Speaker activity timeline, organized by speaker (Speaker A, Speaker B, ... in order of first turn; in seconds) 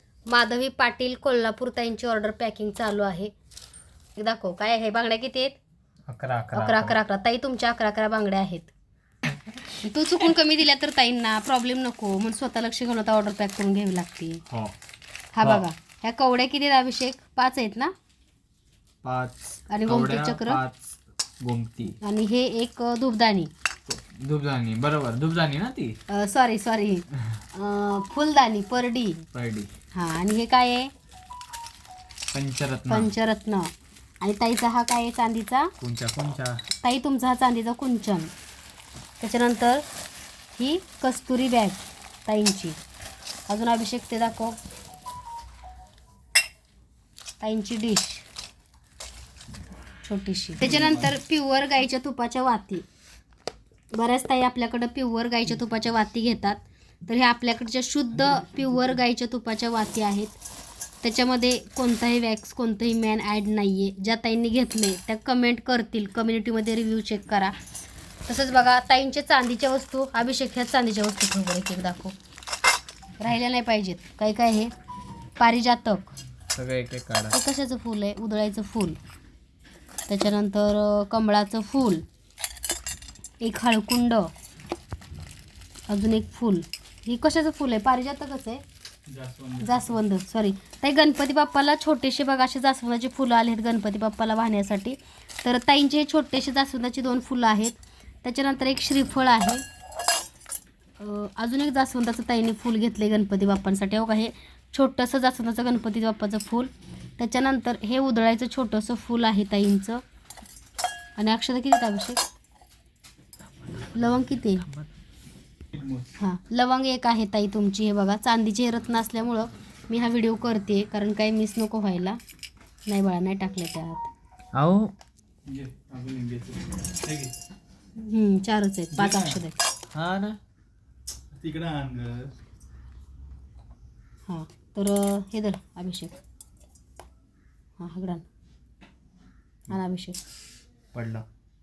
Speaker A: 0.3-3.3, 4.2-5.6, 6.5-8.7, 9.8-14.4, 15.3-17.9, 19.7-20.6, 22.0-23.5, 26.1-29.3, 29.9-30.9, 32.9-35.7, 36.8-38.3, 39.2-39.8, 40.5-42.8, 43.5-44.6, 47.4-48.3, 50.0-52.9, 53.9-60.4, 61.0-67.5, 68.3-72.2, 73.2-74.7, 75.4-76.1, 77.3-79.0, 80.1-82.0, 83.4-84.3, 85.9-88.6, 89.6-99.6, 101.0-110.0, 111.2-112.2, 114.0-114.7, 116.2-122.2, 122.9-124.1, 128.0-129.6, 134.3-136.2, 137.8-138.2, 139.7-140.2
Speaker B: 6.1-7.0, 14.5-14.7, 19.0-22.0, 23.9-26.0, 29.3-29.7, 32.3-33.1, 35.8-36.6, 50.6-51.1, 76.5-77.4, 124.5-124.9, 129.9-130.4, 140.9-141.3
Speaker C: 89.1-90.0, 115.7-116.2, 125.5-127.3, 128.9-129.4, 131.3-132.3